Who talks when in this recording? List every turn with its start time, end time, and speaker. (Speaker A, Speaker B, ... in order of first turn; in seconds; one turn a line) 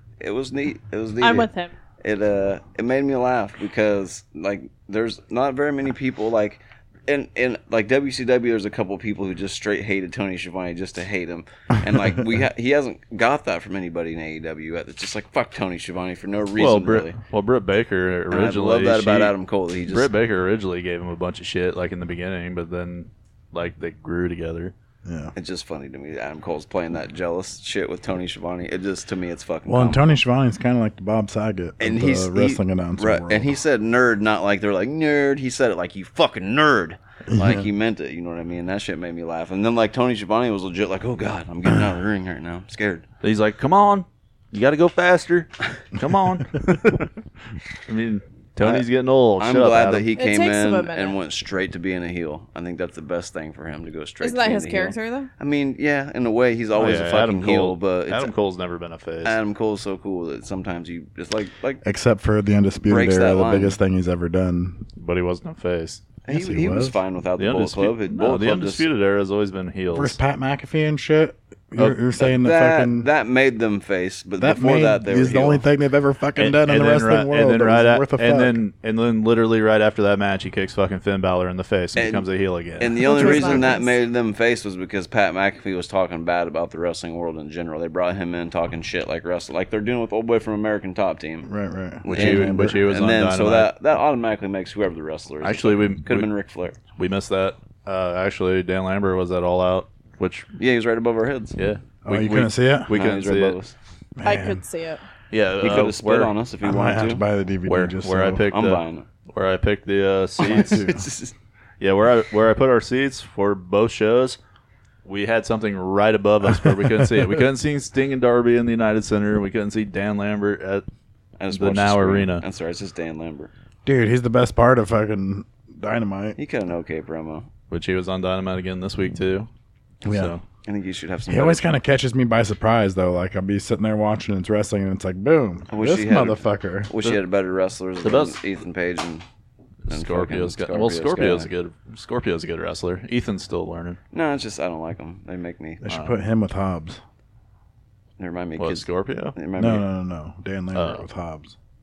Speaker A: 0.2-1.5
Speaker B: 1.2-1.7
Speaker A: 2.0-17.2
Speaker C: 16.6-19.4
Speaker A: 18.3-20.1
Speaker C: 19.9-24.7
Speaker D: 25.1-25.3
Speaker A: 25.4-30.0
Speaker D: 29.7-33.6
Speaker A: 31.8-43.1
Speaker D: 37.3-37.7
Speaker C: 43.2-47.1
Speaker C: 47.9-50.1
Speaker A: 49.4-58.3
Speaker B: 50.1-51.2
Speaker B: 54.2-55.3
Speaker C: 56.7-59.4
Speaker A: 59.2-61.8
Speaker D: 61.8-64.8
Speaker A: 62.8-63.8
Speaker C: 65.0-66.0
Speaker A: 66.2-68.9
Speaker D: 66.3-67.0
Speaker C: 67.4-70.2
Speaker D: 69.9-73.1
Speaker A: 72.2-75.6
Speaker D: 74.4-78.6
Speaker C: 76.4-83.5
Speaker A: 82.0-82.2
Speaker A: 82.8-91.5
Speaker B: 83.0-84.0
Speaker D: 91.4-92.8
Speaker A: 92.0-96.8
Speaker C: 92.1-93.7
Speaker C: 95.4-96.3
Speaker C: 97.0-100.5
Speaker A: 100.6-101.6
Speaker C: 101.6-103.6
Speaker D: 102.0-102.9
Speaker A: 102.9-103.8
Speaker D: 104.2-104.6
Speaker B: 104.2-105.0
Speaker C: 105.3-106.3
Speaker A: 105.6-107.2
Speaker D: 106.6-108.5
Speaker C: 107.7-110.9
Speaker A: 108.5-109.1
Speaker A: 110.4-111.3
Speaker D: 110.4-111.0
Speaker C: 111.8-114.4
Speaker C: 115.0-120.8
Speaker A: 121.4-123.5
Speaker C: 121.5-122.4
Speaker D: 123.8-126.4
Speaker A: 126.4-127.5
Speaker C: 127.7-129.5
Speaker C: 130.0-130.4
Speaker D: 130.1-130.4
Speaker A: 130.6-131.6
Speaker D: 131.3-136.9
Speaker A: 135.7-139.2
Speaker C: 138.0-138.4
Speaker C: 139.9-144.0
Speaker A: 139.9-141.5
Speaker A: 144.1-145.8
Speaker D: 145.8-147.0
Speaker C: 145.9-146.1
Speaker A: 148.2-149.9
Speaker C: 148.6-149.4
Speaker D: 149.6-151.6
Speaker C: 150.7-151.1